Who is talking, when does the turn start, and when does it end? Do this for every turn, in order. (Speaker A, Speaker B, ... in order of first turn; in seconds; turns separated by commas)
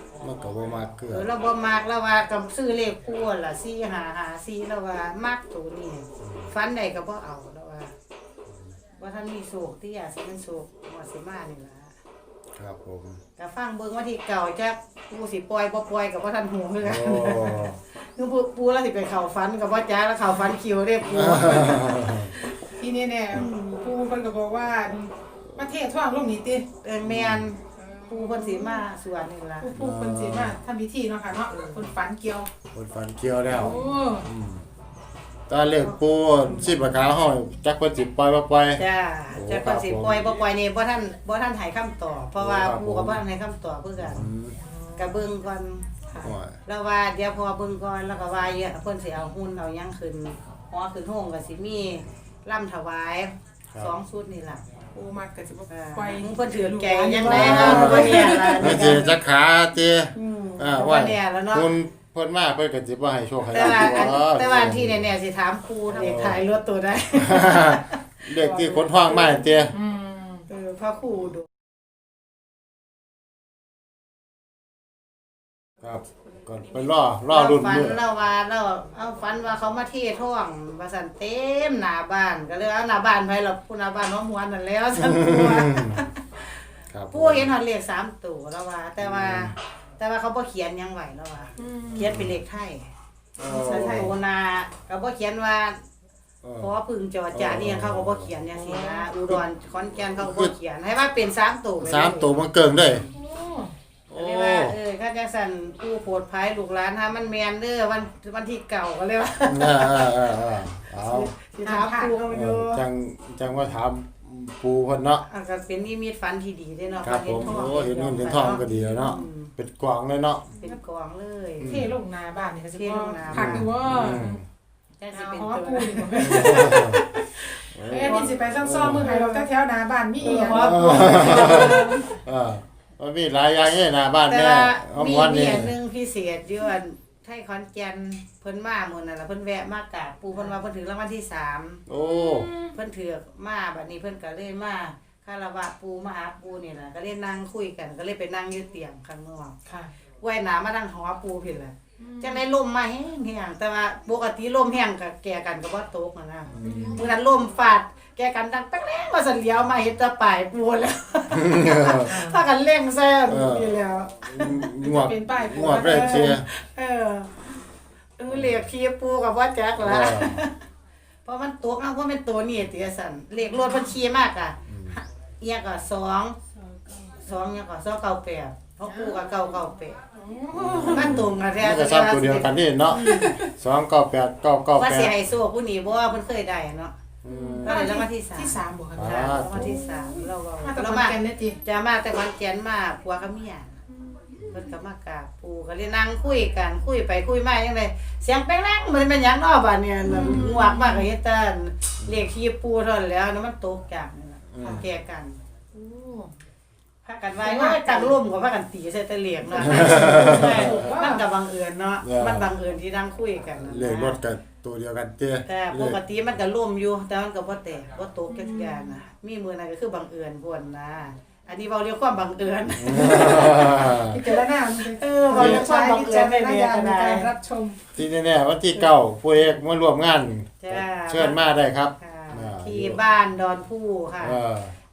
Speaker A: 0.2-1.3, Speaker B: 1.1-7.9, Speaker A: 6.2-6.5, Speaker B: 9.0-11.9, Speaker A: 12.6-13.2, Speaker B: 13.4-22.6, Speaker A: 16.8-17.8, Speaker A: 21.0-22.3, Speaker C: 22.8-26.7, Speaker B: 23.3-23.8, Speaker B: 26.8-29.7, Speaker A: 27.0-27.5, Speaker C: 27.7-28.9, Speaker C: 29.6-32.5, Speaker A: 29.7-30.6, Speaker A: 32.7-34.7, Speaker C: 33.5-34.3, Speaker A: 35.5-40.4, Speaker B: 38.8-44.3, Speaker A: 42.4-43.2, Speaker A: 44.0-44.6, Speaker C: 44.6-45.2, Speaker B: 45.0-45.9, Speaker C: 46.1-46.4, Speaker A: 46.2-46.6, Speaker B: 46.6-54.6, Speaker C: 54.9-59.0, Speaker B: 55.7-59.2, Speaker A: 57.2-65.1, Speaker B: 60.2-61.8, Speaker B: 63.5-69.4, Speaker C: 63.6-64.1, Speaker A: 65.9-66.4, Speaker A: 67.2-69.7, Speaker C: 69.7-70.5, Speaker B: 70.5-71.5, Speaker A: 75.8-78.0, Speaker C: 76.6-77.0, Speaker B: 77.3-86.2, Speaker A: 85.0-86.0, Speaker A: 86.9-87.5, Speaker B: 87.1-92.9, Speaker A: 89.0-89.5, Speaker C: 91.6-92.1, Speaker A: 92.1-92.3, Speaker A: 93.4-94.1, Speaker C: 93.4-94.1, Speaker B: 93.5-95.8, Speaker A: 96.4-96.7, Speaker B: 96.6-102.3, Speaker A: 97.3-98.3, Speaker C: 98.5-99.1, Speaker A: 100.2-100.5, Speaker A: 101.8-103.1, Speaker C: 103.1-103.7, Speaker A: 104.1-104.8, Speaker B: 104.1-110.2, Speaker A: 109.4-111.3, Speaker B: 111.0-112.8, Speaker C: 111.6-112.3, Speaker A: 112.3-115.2, Speaker B: 115.2-119.5, Speaker A: 117.0-120.5, Speaker B: 120.6-121.8, Speaker A: 121.6-121.9, Speaker C: 121.6-124.4, Speaker B: 122.7-123.7, Speaker A: 123.3-124.4, Speaker B: 125.0-129.5, Speaker C: 125.1-127.0, Speaker A: 126.2-127.0, Speaker A: 127.7-129.1, Speaker C: 127.7-132.1, Speaker B: 130.2-132.1, Speaker A: 130.2-135.7, Speaker B: 134.2-141.8, Speaker A: 141.9-142.5, Speaker C: 142.1-142.7, Speaker B: 142.7-149.6, Speaker C: 149.7-149.9, Speaker B: 150.2-164.6, Speaker C: 152.0-152.4, Speaker A: 156.5-157.0, Speaker C: 156.6-157.1, Speaker A: 161.3-162.2, Speaker A: 163.3-166.4, Speaker C: 164.7-166.3, Speaker B: 165.8-167.6, Speaker B: 168.2-170.6, Speaker A: 168.3-168.6, Speaker A: 169.8-170.4, Speaker B: 171.2-176.4, Speaker C: 173.5-173.9, Speaker A: 174.7-175.0, Speaker C: 176.7-177.2, Speaker B: 177.2-180.0, Speaker C: 178.9-179.5, Speaker C: 180.1-181.3, Speaker A: 180.5-185.2, Speaker B: 180.8-183.3, Speaker C: 182.9-183.5, Speaker B: 184.7-186.9, Speaker A: 187.2-187.8, Speaker C: 187.3-191.6, Speaker B: 187.6-193.8, Speaker A: 188.9-189.6, Speaker C: 193.9-194.7, Speaker B: 194.5-205.4, Speaker C: 200.1-201.1, Speaker A: 204.5-204.8, Speaker C: 204.6-204.8, Speaker C: 205.7-206.4, Speaker B: 207.0-214.2, Speaker C: 207.4-208.1, Speaker C: 209.4-211.2, Speaker A: 209.6-210.8, Speaker A: 212.0-212.5, Speaker A: 213.6-216.0, Speaker B: 215.4-227.3, Speaker C: 218.3-219.0, Speaker A: 222.8-224.2, Speaker C: 224.0-227.8, Speaker A: 225.3-225.7, Speaker A: 227.9-233.0, Speaker B: 230.6-231.4, Speaker B: 232.0-234.4, Speaker A: 234.2-234.7